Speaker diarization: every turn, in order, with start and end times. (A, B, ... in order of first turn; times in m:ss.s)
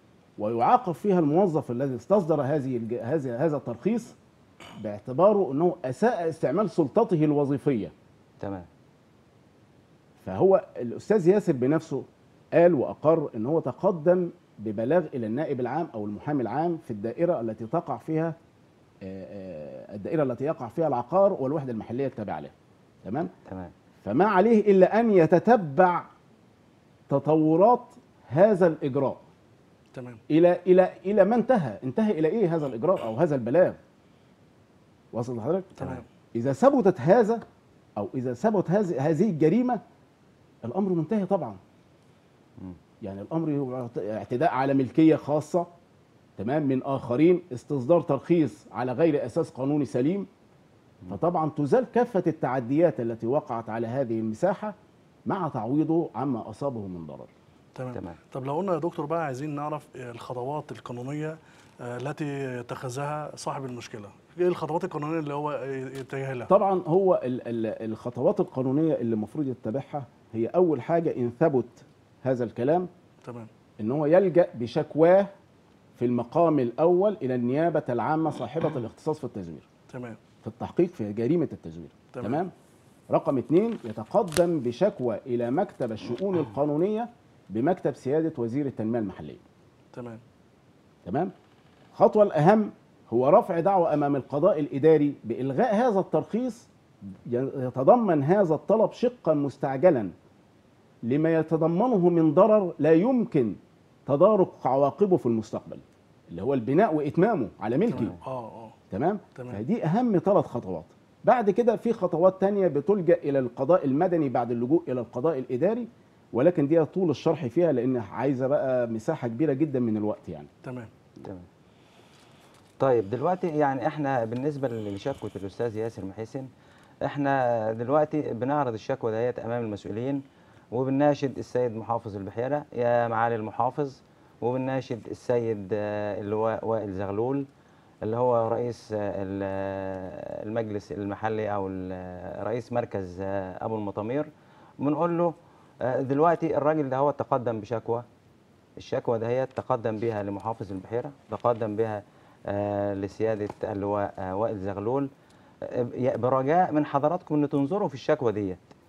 0:00.4-0:04.2 A
0:04.8-0:07.9 A
0:08.4-0:08.7 B
0:10.2-0:18.4 A
0:19.0-0:22.5 A
0:23.0-0:23.3 A
0:23.4-0:23.7 B
0:24.0-0:26.1 A
0:27.1-0:29.2 A
0:29.9-0:30.2 C
0:30.3-0:33.8 A
0:35.1-0:37.4 A
0:35.8-0:36.0 C
0:38.0-0:39.8 A
0:40.6-0:41.6 A
0:43.0-0:45.7 A
0:46.4-0:50.3 A
0:51.1-0:54.8 A
0:55.3-0:57.3 A
0:57.8-1:06.5 C
1:06.5-1:12.9 A
1:13.8-1:15.3 A
1:16.0-1:19.7 A
1:19.9-1:20.2 C
1:20.4-1:22.5 A
1:22.1-1:22.4 C
1:23.1-1:29.4 A
1:29.9-1:30.2 C
1:31.0-1:31.3 A
1:31.9-1:36.7 A
1:37.3-1:40.1 A
1:41.0-1:48.1 A
1:47.9-1:48.8 C
1:48.9-2:00.5 A
1:49.4-1:49.6 C
2:00.6-2:00.9 C
2:02.8-2:06.5 B
2:07.0-2:10.2 B
2:10.7-2:17.4 B
2:18.0-2:24.3 B
2:24.8-2:28.0 B
2:28.8-2:35.1 B
2:35.6-2:38.6 B